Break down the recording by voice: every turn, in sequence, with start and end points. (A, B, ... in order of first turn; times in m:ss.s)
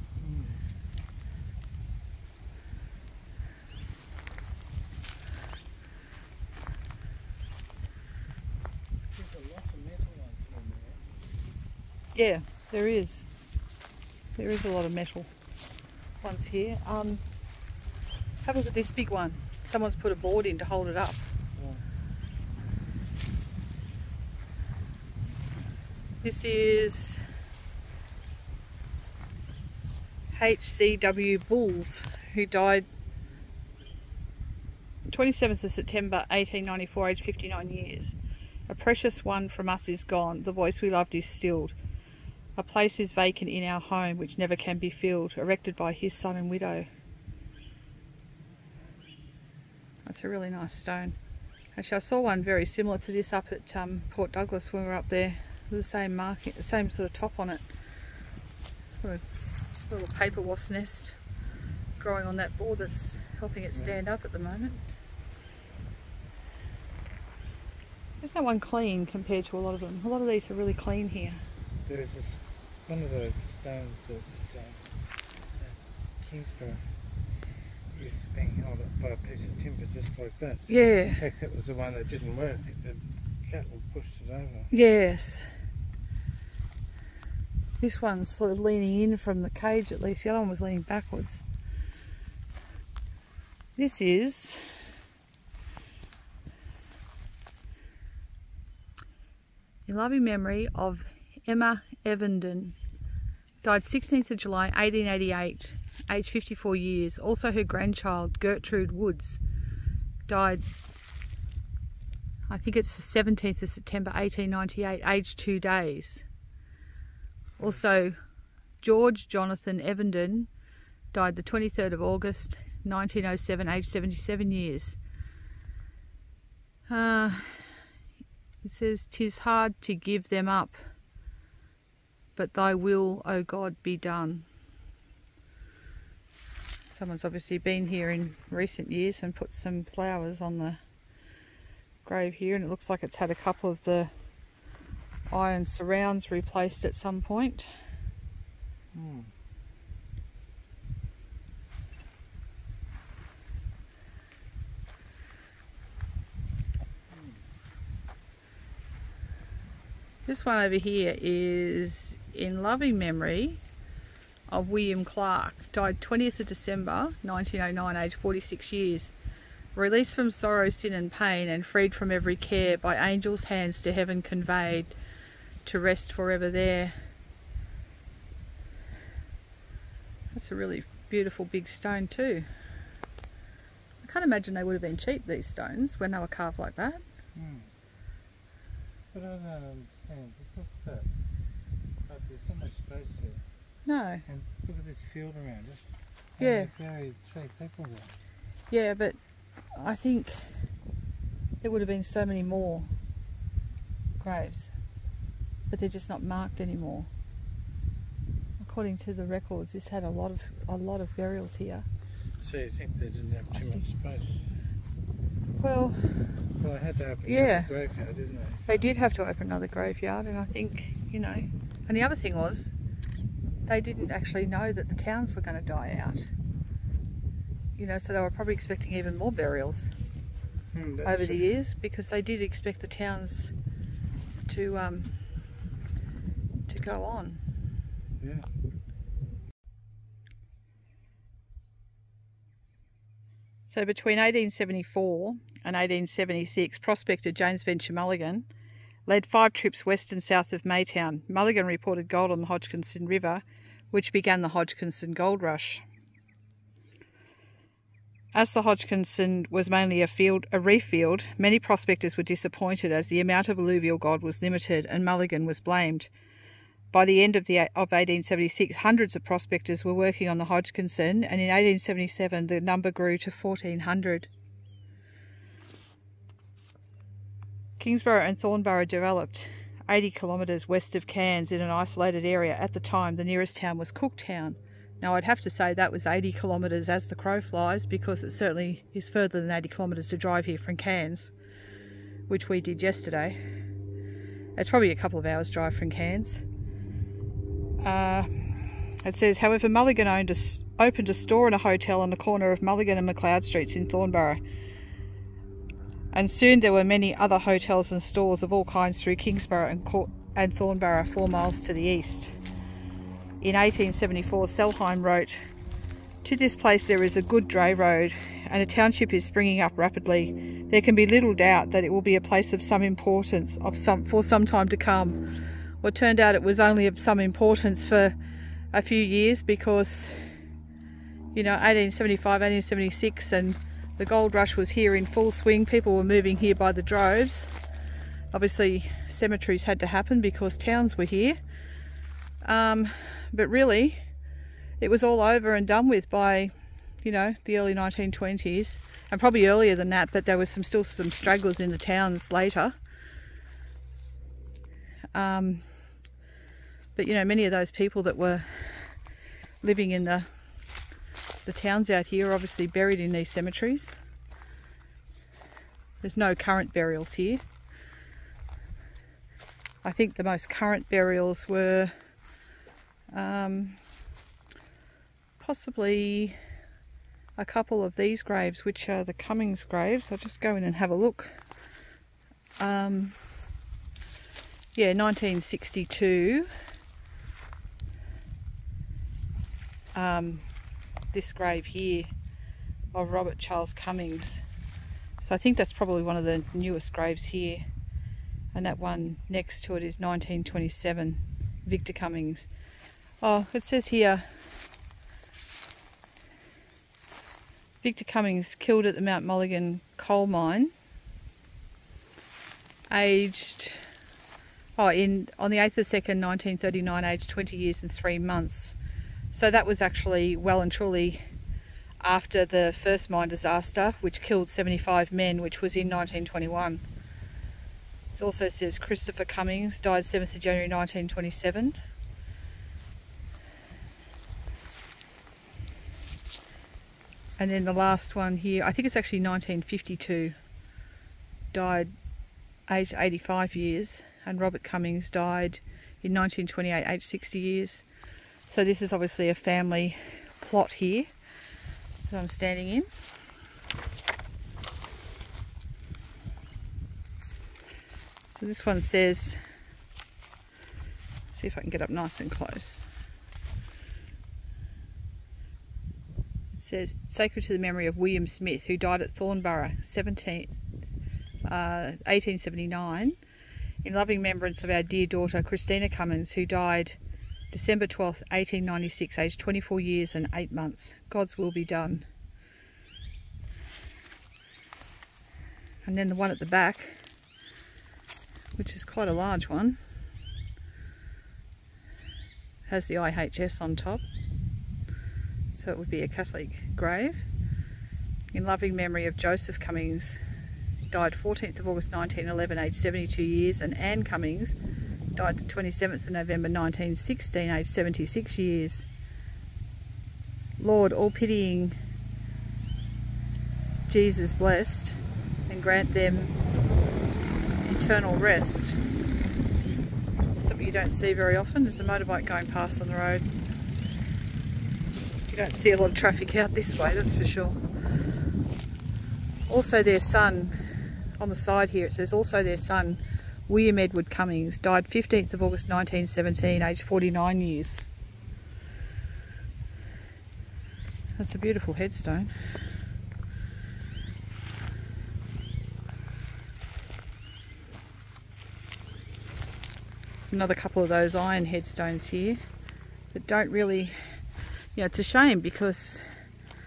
0:00.2-0:00.6 A
0:09.1-0:11.1 A
0:12.1-0:13.3 B
0:14.4-0:15.3 B
0:16.2-0:17.2 B
0:18.4-0:21.2 B
0:21.6-0:21.8 A
0:26.2-0:27.2 B
0:30.3-0:32.8 B
0:35.1-0:38.2 B
0:38.7-0:41.8 B
0:42.6-0:46.9 B
0:50.0-0:51.2 B
0:51.8-0:57.6 B
0:58.8-0:59.2 B
0:59.8-1:01.2 B
1:02.0-1:04.8 B
1:08.2-1:11.4 B
1:11.8-1:14.9 A
1:15.6-1:16.8 A
1:17.9-1:24.7 A
1:20.7-1:21.2 B
1:24.7-1:25.5 B
1:27.8-1:31.4 B
1:33.8-1:34.6 B
1:39.8-1:42.7 B
1:43.6-1:49.4 B
1:50.3-1:50.6 B
1:52.5-1:56.2 B
1:57.6-1:57.8 A
1:57.6-1:58.2 B
1:58.8-2:00.5 B
2:01.1-2:05.0 B
2:06.9-2:07.6 B
2:08.6-2:10.8 B
2:12.4-2:14.4 B
2:16.9-2:20.8 B
2:22.0-2:24.1 B
2:25.3-2:27.7 B
2:28.9-2:29.3 A
2:37.1-2:37.4 A
2:40.2-2:43.6 B
2:44.5-2:49.1 B
2:49.7-2:54.9 B
2:55.6-2:57.0 B
3:00.3-3:02.5 B
3:04.0-3:07.0 B
3:07.3-3:07.7 A
3:09.1-3:11.1 A
3:12.0-3:13.4 A
3:13.8-3:14.2 B
3:14.3-3:18.2 A
3:16.4-3:16.7 B
3:18.7-3:19.2 B
3:19.8-3:20.4 B
3:21.6-3:22.9 B
3:24.2-3:24.7 B
3:25.7-3:27.1 B
3:28.6-3:31.8 B
3:32.4-3:34.5 A
3:35.6-3:36.2 B
3:36.6-3:38.8 A
3:37.2-3:37.7 B
3:38.7-3:42.7 B
3:43.7-3:46.3 B
3:47.8-3:49.9 B
3:50.7-3:51.5 A
3:51.0-3:53.5 B
3:54.5-3:55.1 B
3:56.7-3:57.4 B
3:58.2-3:58.5 A
4:03.6-4:08.5 B
4:09.1-4:15.8 B
4:18.3-4:26.1 B
4:26.9-4:34.3 B
4:37.8-4:51.3 B
4:52.3-4:53.4 B
4:54.6-4:56.4 B
4:57.8-5:04.4 B
5:06.1-5:12.3 B
5:13.4-5:15.4 B
5:16.2-5:25.2 B
5:25.8-5:28.1 B
5:28.7-5:30.3 B
5:31.3-5:37.5 B
5:38.3-5:41.4 B
5:42.4-5:44.0 B
5:44.8-5:52.8 B
5:55.1-5:55.6 B
5:57.0-5:58.9 B
5:59.6-6:00.3 B
6:01.4-6:03.9 B
6:06.0-6:07.4 B
6:09.8-6:11.9 B
6:13.1-6:13.8 B
6:15.4-6:16.4 B
6:17.4-6:21.4 B
6:22.6-6:23.2 B
6:24.7-6:26.5 B
6:29.9-6:30.4 B
6:31.1-6:32.1 B
6:32.9-6:34.4 B
6:35.2-6:37.6 B
6:38.5-6:42.5 B
6:43.2-6:44.2 B
6:47.8-6:50.7 B
6:52.9-6:53.8 B
6:54.8-6:58.8 B
6:59.3-7:01.2 B
7:02.0-7:06.8 B
7:08.1-7:11.8 B
7:17.4-7:20.3 B
7:21.5-7:21.9 B
7:22.7-7:27.8 B
7:28.5-7:31.1 B
7:32.1-7:32.9 B
7:38.3-7:39.4 B
7:41.3-7:42.9 B
7:46.5-7:50.5 B
7:51.4-7:53.2 B
7:53.8-7:57.0 B
7:57.5-8:02.1 B
8:05.8-8:07.0 B
8:08.6-8:09.8 B
8:12.7-8:14.0 B
8:15.5-8:17.3 B
8:18.3-8:20.2 B
8:20.9-8:24.5 B
8:25.2-8:28.9 B
8:30.6-8:31.8 B
8:33.9-8:36.4 B
8:37.6-8:38.8 B
8:40.4-8:43.2 B
8:45.3-8:47.6 B
8:49.5-8:50.5 B
8:51.2-8:57.9 B
9:01.2-9:02.3 B
9:10.2-9:12.4 B
9:13.1-9:14.0 B
9:14.8-9:16.1 B